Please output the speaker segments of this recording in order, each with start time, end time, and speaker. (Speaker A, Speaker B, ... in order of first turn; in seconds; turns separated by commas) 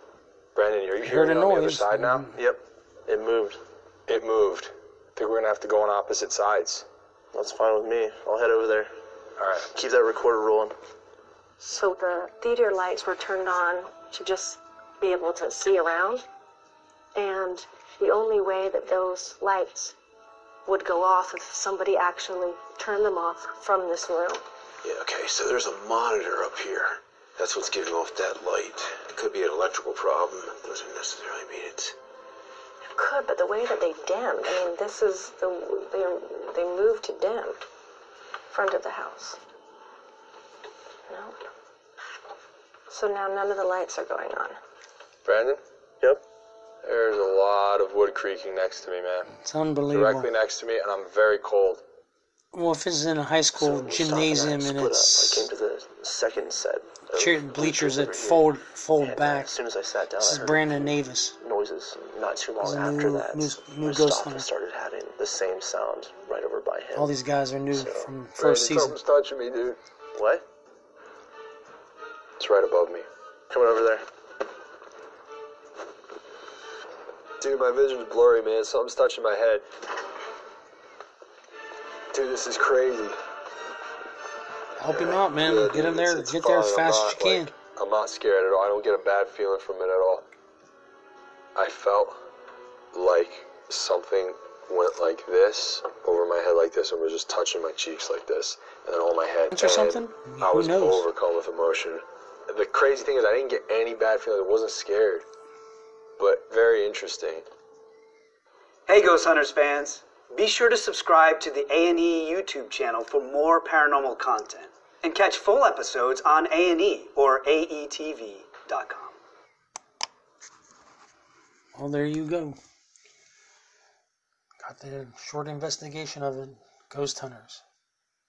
Speaker A: 0.5-2.2, Speaker B: 1.0-2.4, Speaker C: 2.3-3.6, Speaker A: 4.1-6.8, Speaker C: 7.3-8.9, Speaker A: 9.4-9.7, Speaker C: 9.7-10.7, Speaker D: 11.6-16.2, Speaker D: 17.1-19.9, Speaker D: 20.6-24.4, Speaker E: 24.8-31.9, Speaker D: 32.9-37.6, Speaker D: 38.5-39.4, Speaker D: 41.1-41.4, Speaker D: 42.9-44.6, Speaker A: 45.2-45.6, Speaker A: 46.8-49.3, Speaker B: 49.4-50.3, Speaker A: 49.9-51.8, Speaker B: 52.5-55.5, Speaker C: 53.5-67.1, Speaker B: 57.1-59.5, Speaker B: 60.2-61.4, Speaker B: 62.6-64.5, Speaker B: 66.9-69.0, Speaker C: 67.7-68.1, Speaker A: 68.4-69.8, Speaker C: 70.1-70.4, Speaker A: 72.4-73.0, Speaker C: 73.5-74.0, Speaker A: 77.4-79.6, Speaker A: 82.1-83.2, Speaker B: 84.8-87.5, Speaker A: 84.9-90.2, Speaker A: 91.5-92.2, Speaker A: 92.9-105.2, Speaker B: 99.5-101.0, Speaker A: 106.2-107.5, Speaker F: 108.9-119.1, Speaker B: 121.7-122.6, Speaker B: 124.6-127.6